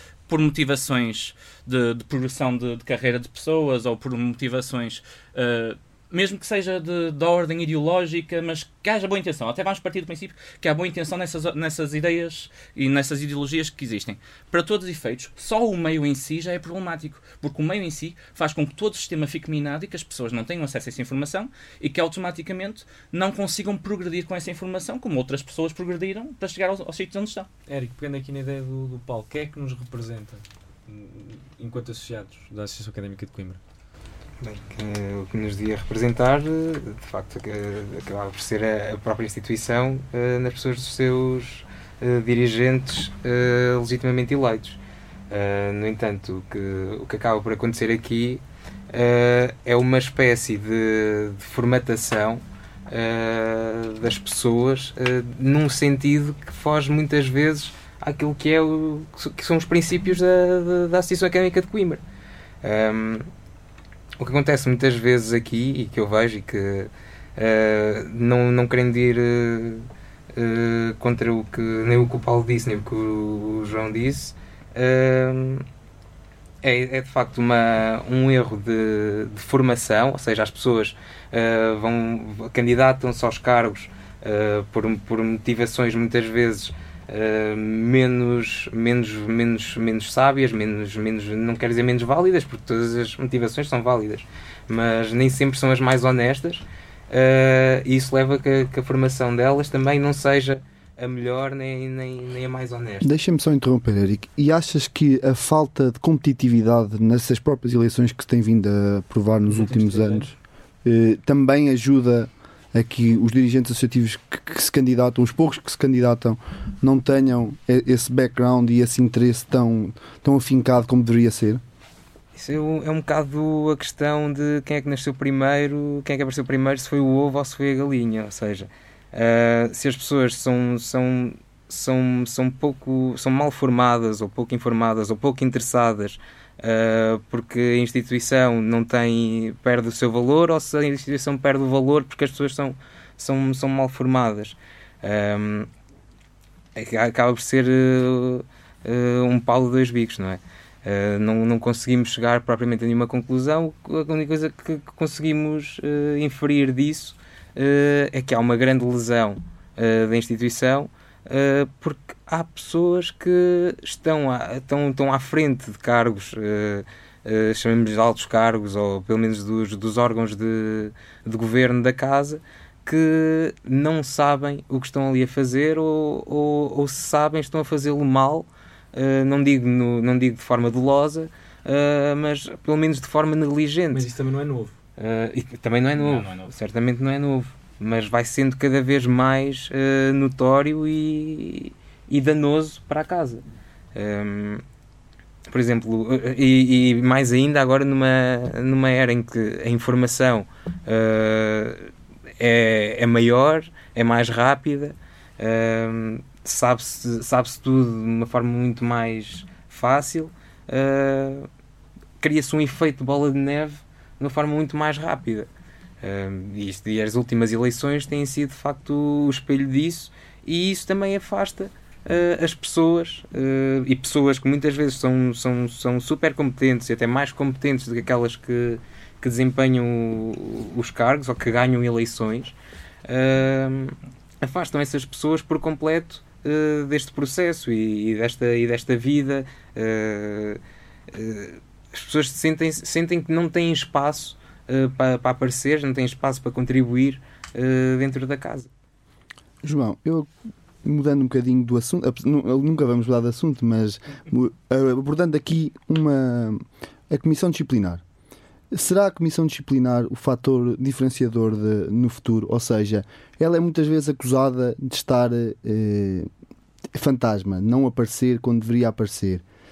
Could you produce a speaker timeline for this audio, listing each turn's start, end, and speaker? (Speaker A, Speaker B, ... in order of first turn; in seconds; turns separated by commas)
Speaker A: 0.3-27.5, Speaker B: 27.7-33.6, Speaker C: 34.4-44.8, Speaker C: 45.3-62.0, Speaker C: 62.6-63.3, Speaker C: 64.2-75.6, Speaker C: 76.6-103.1, Speaker D: 103.0-121.6, Speaker B: 109.5-110.3, Speaker C: 122.3-145.7, Speaker C: 146.8-184.1, Speaker B: 183.9-184.8, Speaker C: 185.0-193.4, Speaker A: 186.0-186.5, Speaker C: 193.9-194.6, Speaker C: 195.5-211.5, Speaker C: 212.2-215.5, Speaker C: 216.0-232.5, Speaker C: 233.1-240.6, Speaker C: 241.1-248.7, Speaker D: 249.6-250.3, Speaker D: 250.8-258.0, Speaker D: 258.7-266.3, Speaker D: 266.9-269.4